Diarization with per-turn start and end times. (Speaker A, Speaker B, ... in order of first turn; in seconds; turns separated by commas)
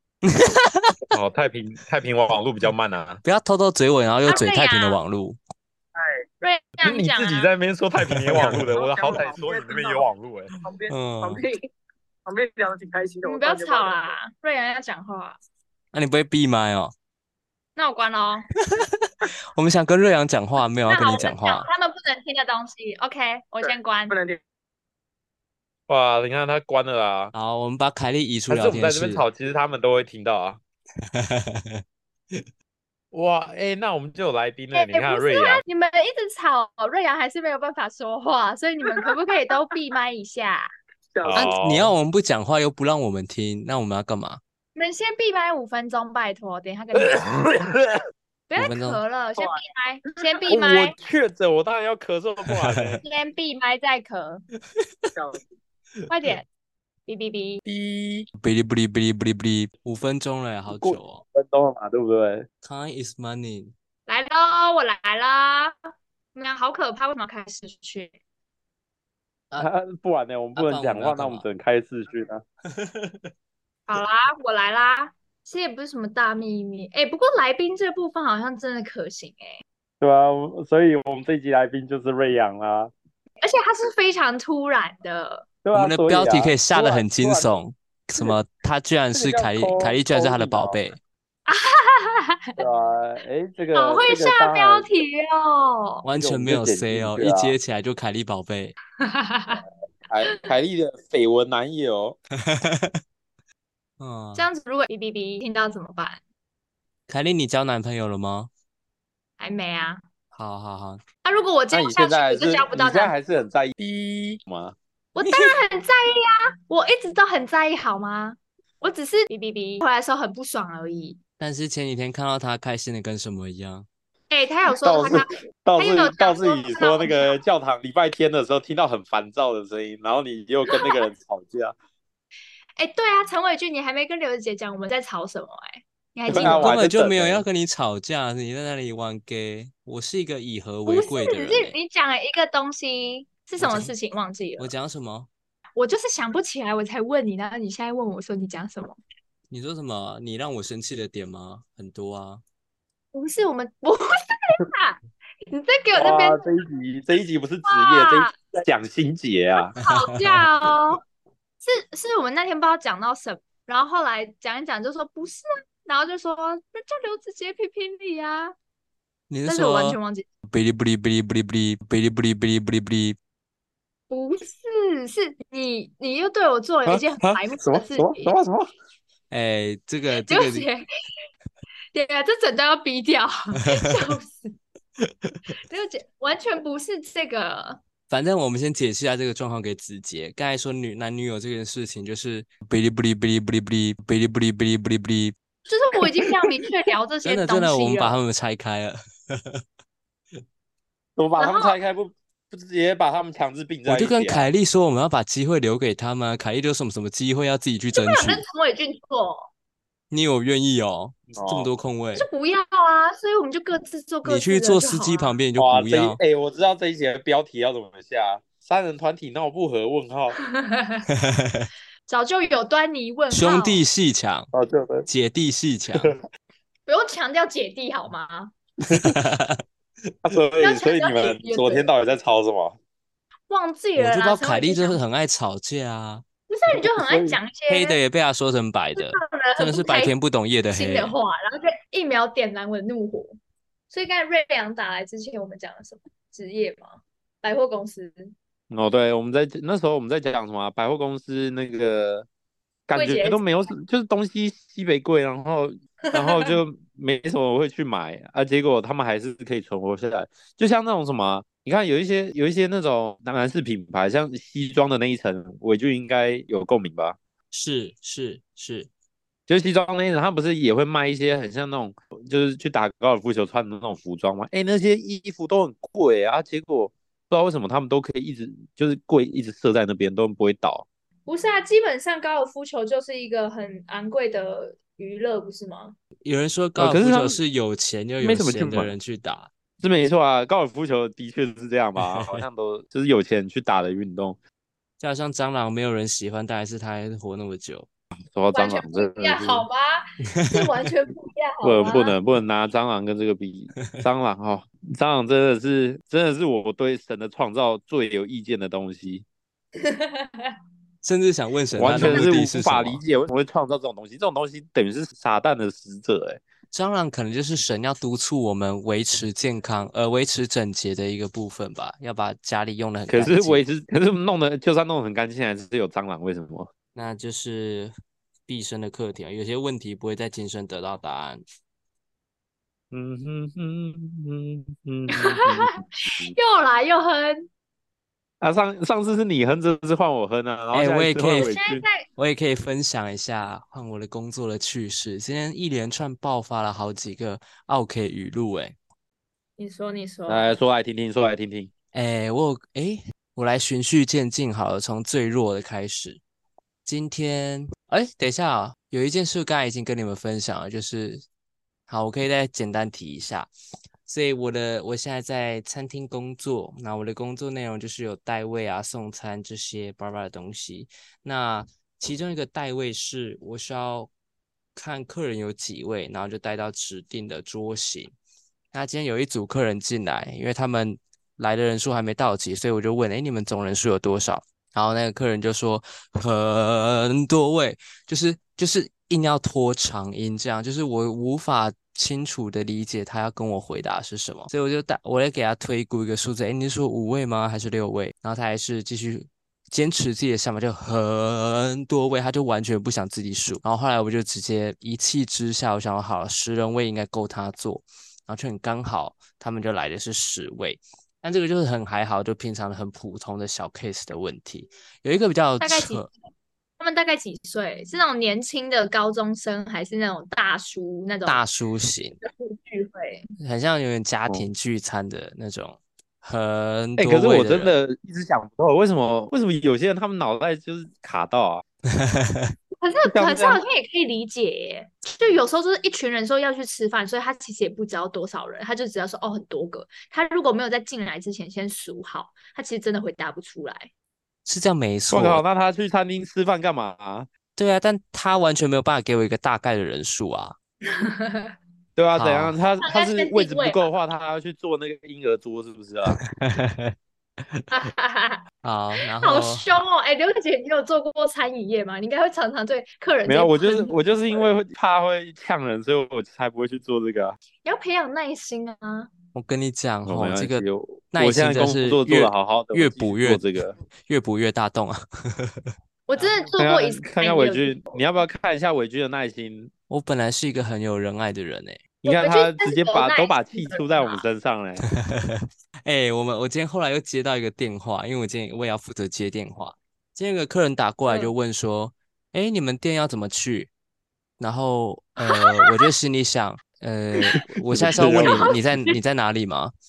Speaker A: 0.2-1.0, Speaker B: 1.1-3.2, Speaker A: 3.2-5.4, Speaker C: 4.2-5.0, Speaker D: 6.0-6.2, Speaker C: 6.4-7.5, Speaker B: 6.8-10.5, Speaker A: 8.1-8.7, Speaker D: 8.4-10.1, Speaker D: 10.6-11.7, Speaker A: 10.9-11.4, Speaker D: 12.2-14.1, Speaker C: 13.2-15.4, Speaker A: 15.9-16.9, Speaker C: 17.8-18.5, Speaker A: 18.6-21.6, Speaker C: 20.9-24.1, Speaker D: 23.6-24.4, Speaker B: 25.9-27.3, Speaker A: 27.3-29.2, Speaker B: 28.5-30.6, Speaker A: 31.1-32.5, Speaker B: 33.1-35.6, Speaker C: 34.7-40.7, Speaker D: 41.1-41.5, Speaker B: 41.2-41.9, Speaker A: 41.3-44.4, Speaker C: 44.7-47.2, Speaker B: 46.9-48.0, Speaker C: 48.5-51.0, Speaker A: 48.5-49.0, Speaker D: 49.4-49.6, Speaker B: 50.5-53.0, Speaker A: 52.5-53.0, Speaker C: 53.0-54.4, Speaker D: 55.1-55.4, Speaker C: 56.1-56.5, Speaker C: 57.1-57.6, Speaker B: 57.6-58.3, Speaker A: 58.4-61.2, Speaker B: 60.7-62.5, Speaker A: 62.6-63.7, Speaker C: 64.1-65.7, Speaker C: 66.3-68.1, Speaker B: 69.5-72.4, Speaker A: 70.5-71.4, Speaker A: 72.8-73.1, Speaker C: 73.9-79.6, Speaker B: 80.0-82.9, Speaker C: 83.4-85.5, Speaker B: 85.6-87.6, Speaker A: 85.7-91.0, Speaker B: 89.1-90.8, Speaker C: 91.5-92.6, Speaker B: 92.6-94.9, Speaker C: 93.7-96.0, Speaker A: 96.0-98.7, Speaker B: 96.1-97.5, Speaker C: 99.0-99.6, Speaker B: 100.1-102.2, Speaker A: 102.5-103.0, Speaker A: 104.0-104.5, Speaker C: 104.3-106.2, Speaker A: 107.1-108.5, Speaker C: 109.4-110.0, Speaker A: 110.3-111.0, Speaker C: 111.2-113.1, Speaker B: 111.7-114.8, Speaker C: 115.1-121.2, Speaker A: 121.4-123.8, Speaker C: 124.3-127.4, Speaker B: 124.8-131.7, Speaker C: 130.7-131.1, Speaker C: 132.8-136.7, Speaker B: 136.3-137.4, Speaker A: 136.3-141.7, Speaker C: 140.9-144.7, Speaker A: 143.6-143.9, Speaker A: 144.6-145.3, Speaker C: 145.8-149.0, Speaker A: 149.5-152.4, Speaker C: 153.1-155.0, Speaker C: 155.5-156.4, Speaker B: 155.9-159.8, Speaker C: 157.6-158.3, Speaker C: 159.7-161.0, Speaker A: 159.8-160.5, Speaker C: 161.6-168.5, Speaker A: 169.3-173.2, Speaker C: 169.4-170.3, Speaker C: 174.1-178.3, Speaker B: 176.8-178.7, Speaker A: 179.3-180.7, Speaker C: 180.1-180.8, Speaker C: 181.9-184.6, Speaker C: 185.6-187.8, Speaker A: 188.1-195.3, Speaker C: 195.7-198.2, Speaker A: 197.2-199.6, Speaker B: 201.2-204.5, Speaker C: 201.4-201.8, Speaker A: 203.8-208.4, Speaker C: 207.9-209.5, Speaker A: 210.1-212.3, Speaker B: 211.3-211.7, Speaker C: 212.2-215.3, Speaker A: 214.2-216.2, Speaker B: 215.6-220.4, Speaker C: 220.4-221.1, Speaker A: 221.1-221.7, Speaker C: 222.1-223.8, Speaker A: 223.3-224.5, Speaker B: 224.5-225.1, Speaker A: 225.1-226.1, Speaker B: 225.9-226.2, Speaker C: 226.9-228.5, Speaker B: 228.8-229.2, Speaker A: 228.9-229.6, Speaker B: 230.2-232.8, Speaker C: 230.6-231.9, Speaker C: 233.5-235.0, Speaker A: 233.9-236.2, Speaker C: 236.5-238.0, Speaker B: 236.7-237.4, Speaker A: 237.7-241.1, Speaker C: 238.9-240.1, Speaker C: 240.7-243.4, Speaker C: 243.9-248.3, Speaker B: 248.7-252.3, Speaker B: 252.9-267.2, Speaker C: 252.9-253.7, Speaker C: 256.1-256.6, Speaker A: 267.5-268.9, Speaker B: 269.5-280.9, Speaker C: 281.2-286.0, Speaker A: 286.2-289.5, Speaker B: 286.8-287.4, Speaker B: 288.2-288.9, Speaker B: 289.8-294.4, Speaker A: 292.0-292.4, Speaker A: 295.0-297.9, Speaker B: 298.3-299.7, Speaker C: 298.5-302.1, Speaker A: 300.4-300.6, Speaker B: 301.6-309.2, Speaker C: 309.8-310.5, Speaker A: 311.0-313.0, Speaker B: 311.8-316.4, Speaker C: 312.0-312.3, Speaker A: 316.7-323.6, Speaker B: 323.1-326.7, Speaker A: 326.9-327.9, Speaker A: 328.5-331.4, Speaker B: 332.9-336.4, Speaker C: 335.1-335.8, Speaker C: 336.3-337.5, Speaker B: 338.4-341.8, Speaker A: 340.7-341.6, Speaker C: 341.4-342.1, Speaker A: 342.1-348.8, Speaker C: 349.6-350.6, Speaker B: 350.3-351.7, Speaker A: 351.9-356.2, Speaker A: 356.8-361.2, Speaker A: 361.9-363.5, Speaker A: 364.1-374.1, Speaker A: 374.8-378.1, Speaker A: 378.7-416.1, Speaker C: 415.6-416.1, Speaker C: 416.8-421.4, Speaker A: 421.2-422.2, Speaker C: 422.2-423.3, Speaker A: 423.4-427.7, Speaker B: 427.0-431.6, Speaker A: 431.9-432.5, Speaker C: 432.8-443.9, Speaker B: 433.1-433.6, Speaker A: 444.4-445.4, Speaker B: 445.1-447.3, Speaker A: 447.6-450.6, Speaker C: 450.9-451.6, Speaker B: 452.0-456.2, Speaker A: 452.1-452.5, Speaker C: 452.8-453.9, Speaker A: 456.1-457.6, Speaker C: 457.7-458.4, Speaker A: 458.6-459.7, Speaker C: 459.1-464.4, Speaker B: 463.2-467.4, Speaker C: 467.6-469.1, Speaker A: 469.3-473.4, Speaker B: 470.0-473.7, Speaker A: 474.1-476.5, Speaker C: 476.1-477.9, Speaker B: 476.6-479.7, Speaker A: 479.9-481.8, Speaker C: 482.0-484.2, Speaker B: 482.0-484.9, Speaker A: 484.9-493.7, Speaker A: 494.4-499.7, Speaker C: 495.2-495.8, Speaker B: 497.7-498.6, Speaker C: 498.2-498.9